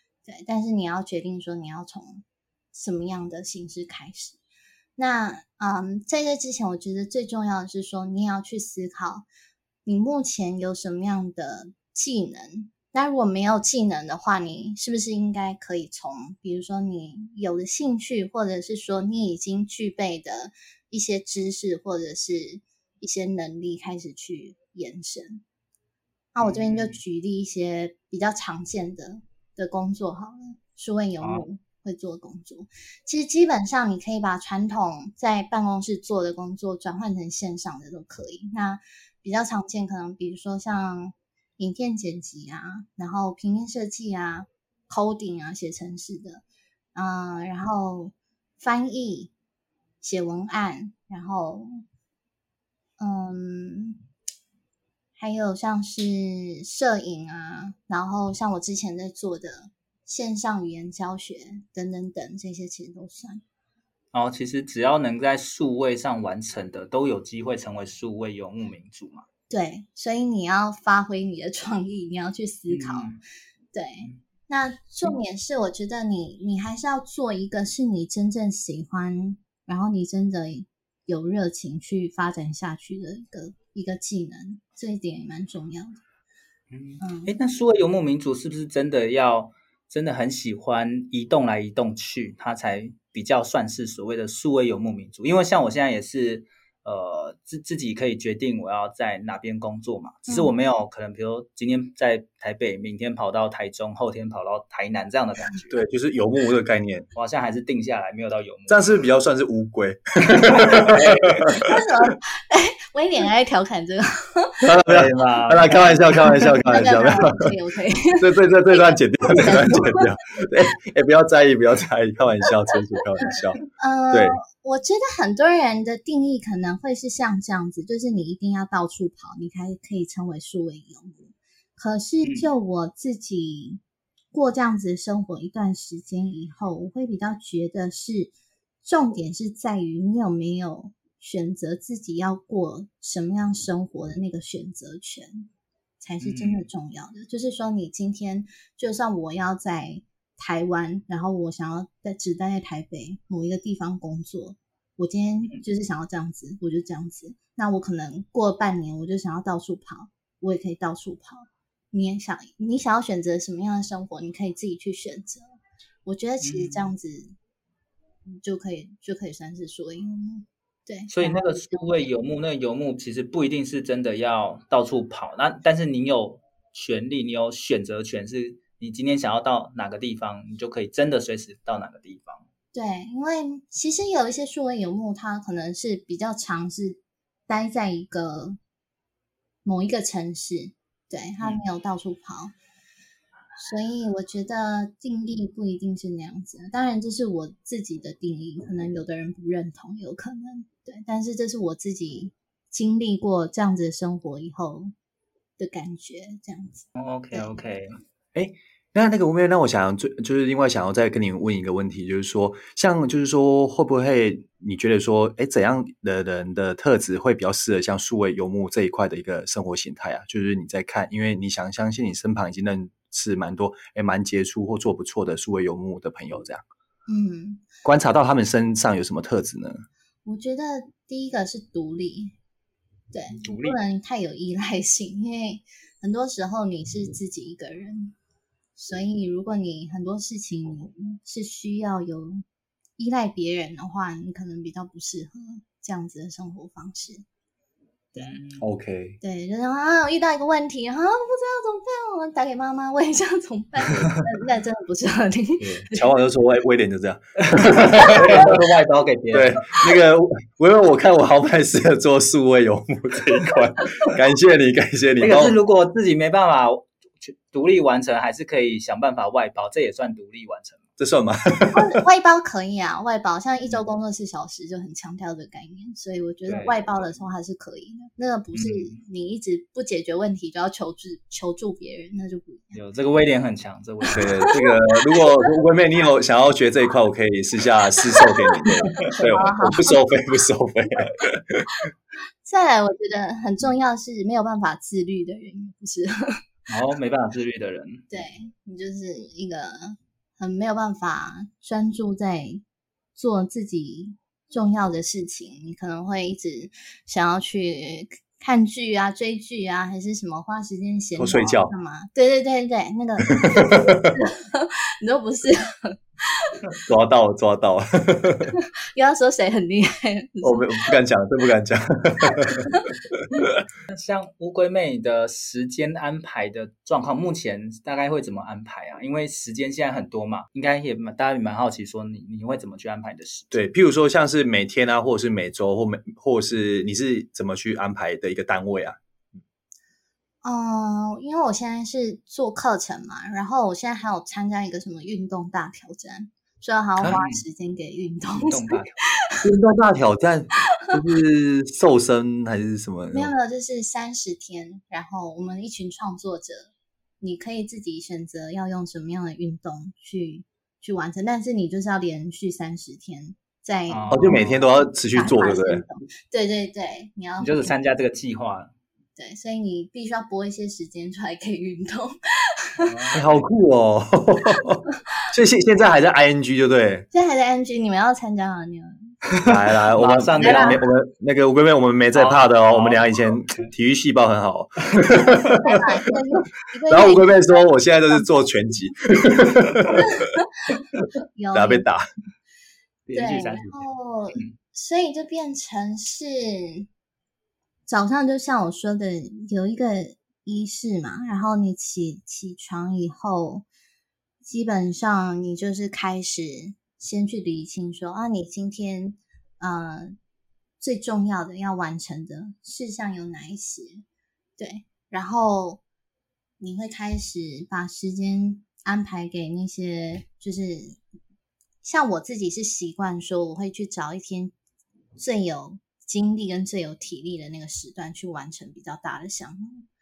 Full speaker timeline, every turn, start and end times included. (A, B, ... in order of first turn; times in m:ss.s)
0:00.3-0:04.4 A
0:05.0-0:09.3 A
0:09.9-0:25.4 A
0:26.4-0:49.3 A
0:26.4-0:27.0 B
0:50.0-0:51.7 A
0:53.0-0:54.0 A
0:55.2-1:03.4 A
1:04.1-1:09.2 B
1:09.5-1:13.1 A
1:12.7-1:13.2 B
1:13.7-1:26.0 A
1:26.7-1:45.8 B
1:27.0-1:27.3 A
1:45.7-1:47.1 C
1:47.2-1:48.9 B
1:48.7-1:51.7 C
1:50.6-1:50.9 B
1:51.5-1:54.6 A
1:54.6-1:57.5 C
1:54.8-1:55.9 B
1:56.4-2:00.1 A
1:58.2-2:04.4 C
2:03.8-2:13.8 A
2:14.3-2:25.5 A
2:26.0-2:45.4 A
2:26.2-2:26.6 B
2:46.1-2:47.4 A
2:46.4-2:46.9 B
2:48.3-2:52.1 A
2:51.1-3:02.4 B
3:02.7-3:08.6 A
3:09.6-3:12.5 A
3:13.6-3:24.9 A
3:25.6-3:27.6 A
3:27.0-3:28.0 B
3:28.4-3:46.6 C
3:47.1-3:47.6 A
3:47.8-3:49.8 C
3:50.3-3:52.4 A
3:53.1-3:58.2 A
3:53.4-3:53.8 B
3:58.8-4:02.4 A
4:03.0-4:07.2 A
4:08.1-4:08.4 A
4:08.2-4:08.6 B
4:08.6-4:09.2 C
4:09.2-4:16.0 A
4:15.6-4:18.6 C
4:17.4-4:19.6 B
4:17.9-4:18.5 A
4:19.3-4:25.6 C
4:25.2-4:30.8 B
4:31.0-4:31.9 C
4:31.7-4:42.8 A
4:36.5-4:36.9 B
4:38.5-4:39.0 B
4:42.7-4:44.5 B
4:44.1-4:45.3 A
4:44.2-4:51.7 C
4:48.2-4:50.0 A
4:52.4-4:56.4 A
4:56.7-4:58.0 B
4:58.1-5:02.6 A
5:03.2-5:16.6 A
5:11.2-5:11.7 C
5:13.4-5:14.2 C
5:16.9-5:18.5 C
5:18.5-5:20.9 A
5:20.4-5:23.6 C
5:22.5-5:22.9 A
5:23.9-5:33.6 B
5:33.5-5:39.0 C
5:40.4-5:48.8 A
5:47.0-5:47.4 B
5:48.3-5:49.0 B
5:49.4-5:53.3 C
5:53.1-6:04.4 A
6:03.9-6:04.7 B
6:04.1-6:05.8 C
6:05.1-6:07.7 A
6:07.4-6:08.7 B
6:09.2-6:12.2 A
6:12.8-6:13.5 B
6:13.1-6:17.1 C
6:17.1-6:19.2 A
6:19.4-6:20.8 B
6:19.4-6:25.8 C
6:20.4-6:20.8 A
6:22.1-6:23.7 B
6:25.5-6:27.7 A
6:26.9-6:30.3 C
6:30.0-6:30.8 A
6:31.4-6:31.9 A
6:31.5-6:32.0 C
6:33.1-6:34.5 B
6:33.1-6:36.9 A
6:37.9-6:43.7 A
6:44.4-6:50.2 A
6:50.8-6:54.0 A
6:54.6-6:55.8 A
6:56.6-7:01.0 A
7:01.8-7:04.5 A
7:05.2-7:09.8 A